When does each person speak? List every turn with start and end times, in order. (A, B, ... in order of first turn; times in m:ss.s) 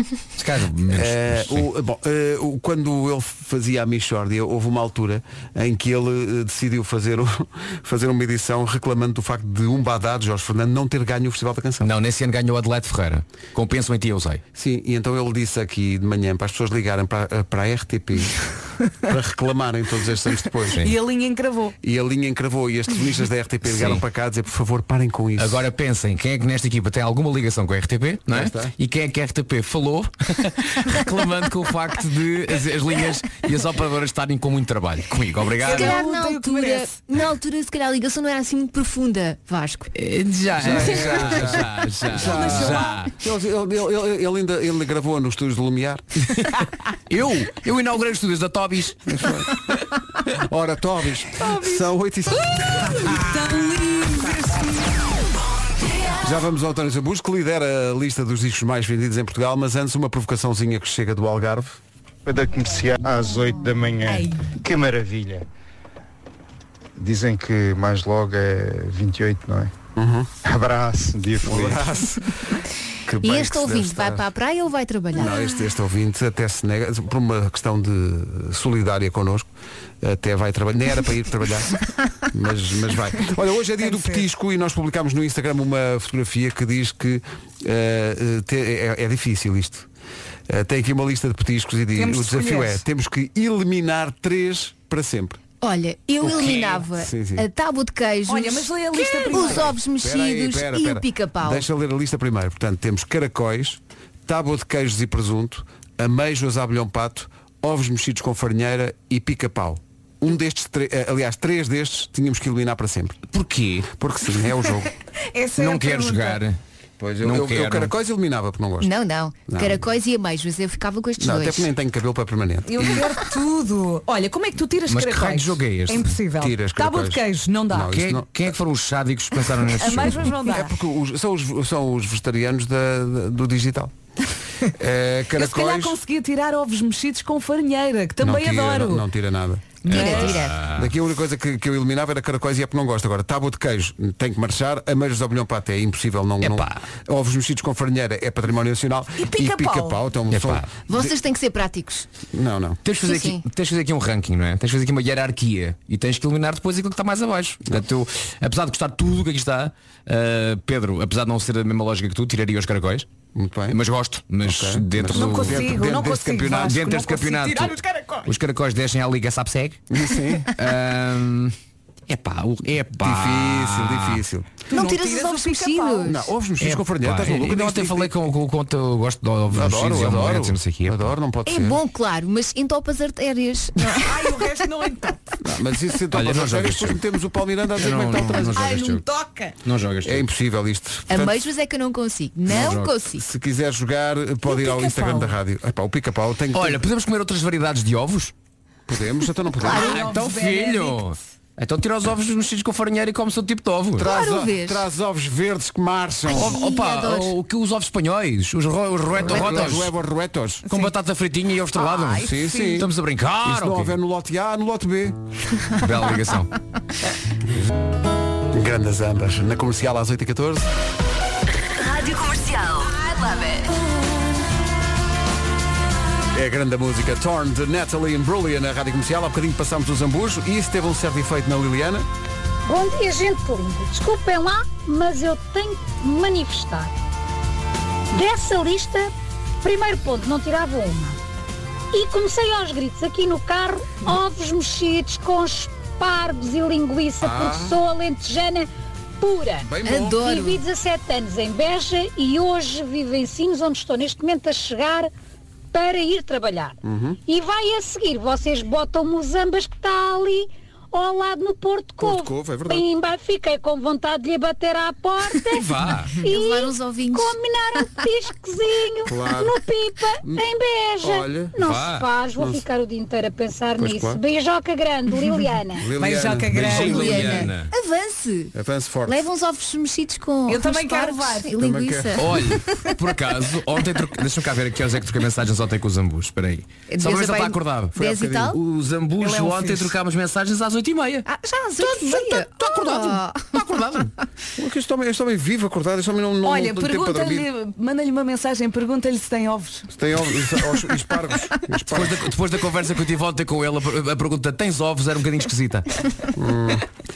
0:00.4-0:01.6 A
0:00.9-0:11.9 B
0:11.8-0:14.4 A
0:14.5-0:18.4 B
0:19.0-0:20.9 B
0:20.8-0:21.7 C
0:21.8-0:25.6 B
0:23.6-0:24.0 A
0:25.4-0:36.0 A
0:28.3-0:28.7 B
0:35.6-0:36.9 C
0:35.6-0:39.9 D
0:39.9-0:43.1 A
0:40.6-0:46.0 B
0:42.2-0:43.0 C
0:47.1-0:49.0 A
0:49.1-0:49.5 B
0:50.3-0:53.2 B
0:51.4-0:51.8 C
0:53.0-0:54.6 C
0:56.2-1:01.8 B
1:02.2-1:05.4 E
1:07.0-1:09.7 E
1:10.0-1:10.3 B
1:10.4-1:12.0 E
1:11.4-1:14.3 B
1:13.2-1:15.4 D
1:15.1-1:19.5 B
1:20.0-1:21.7 B
1:22.3-1:29.9 B
1:23.8-1:24.2 C
1:30.5-1:35.4 B
1:32.0-1:32.8 C
1:35.6-1:41.7 D
1:36.2-1:37.4 B
1:38.3-1:39.7 C
1:39.3-1:53.2 B
1:53.3-1:53.9 A
1:53.9-1:54.9 B
1:55.3-1:56.4 C
1:55.6-1:56.6 A
1:57.0-1:58.9 B
1:57.2-1:57.9 A
1:58.8-2:01.7 D
1:59.5-1:59.8 B
2:01.2-2:03.1 B
2:02.6-2:07.9 C
2:04.9-2:06.2 A
2:06.4-2:08.3 B
2:07.9-2:10.4 A
2:09.8-2:10.7 C
2:10.4-2:13.9 B
2:14.7-2:16.0 B
2:15.4-2:19.0 C
2:18.2-2:31.1 B
2:19.8-2:20.4 C
2:19.9-2:20.9 A
2:19.9-2:20.6 D
2:26.4-2:26.8 A
2:29.2-2:30.0 C
2:30.3-2:30.7 A
2:30.9-2:32.1 D
2:32.3-2:32.8 B
2:32.8-2:43.1 A
2:33.0-2:33.4 D
2:43.3-2:43.8 B
2:43.7-2:45.6 A
2:44.4-2:46.9 B
2:45.1-2:48.3 C
2:46.5-2:49.8 A
2:49.9-2:50.5 B
2:50.5-2:51.5 A
2:52.1-2:54.2 A
2:53.0-2:54.5 B
2:54.7-2:56.2 C
2:54.7-2:56.2 D
2:56.1-2:58.1 B
2:56.6-3:01.1 A
2:59.5-3:01.8 B
3:01.4-3:04.5 D
3:03.9-3:05.2 C
3:05.4-3:08.8 B
3:06.1-3:07.0 A
3:07.8-3:09.0 A
3:08.5-3:09.5 C
3:09.6-3:10.2 A
3:10.0-3:11.4 B
3:11.1-3:13.2 D
3:12.5-3:12.9 A
3:13.2-3:16.8 B
3:14.5-3:15.3 C
3:16.5-3:18.3 A
3:18.9-3:19.9 B
3:19.6-3:20.0 D
3:19.6-3:21.1 C
3:19.7-3:24.1 A
3:24.0-3:26.6 B
3:24.0-3:24.8 D
3:26.3-3:27.4 D
3:26.3-3:29.9 A
3:29.2-3:30.7 B
3:30.7-3:33.9 A
3:31.8-3:32.8 C
3:32.2-3:32.9 B
3:33.4-3:35.2 B
3:35.8-3:36.5 A
3:38.5-3:40.7 B
3:41.8-3:43.7 F
3:46.3-3:52.1 B
3:52.6-3:56.9 G
3:58.1-3:59.1 G
3:59.6-4:01.2 G
4:01.9-4:08.7 G
4:07.2-4:07.8 B
4:09.2-4:15.1 G
4:09.6-4:10.2 B
4:09.8-4:10.6 D
4:15.7-4:16.8 G
4:16.8-4:17.2 B
4:17.3-4:35.9 G
4:22.0-4:22.8 B
4:25.5-4:26.2 A
4:26.2-4:27.9 D
4:29.1-4:29.6 B
4:31.0-4:31.6 B
4:31.6-4:32.1 A
4:33.8-4:34.2 B
4:35.8-4:37.4 B
4:36.0-4:37.2 C
4:36.5-4:37.7 A
4:36.7-4:38.5 D
4:38.5-4:39.2 B
4:39.1-4:42.5 D
4:40.5-4:41.5 C
4:41.6-4:42.4 B
4:42.2-4:51.2 A
4:46.9-4:48.6 D
4:48.0-4:48.5 B
4:49.2-4:49.9 C
4:51.3-4:53.6 D
4:51.8-4:52.3 C
4:52.6-4:54.1 A
4:54.6-4:57.5 B
4:56.4-4:59.9 C
4:59.9-5:02.3 B
5:01.9-5:05.9 A
5:06.4-5:06.9 B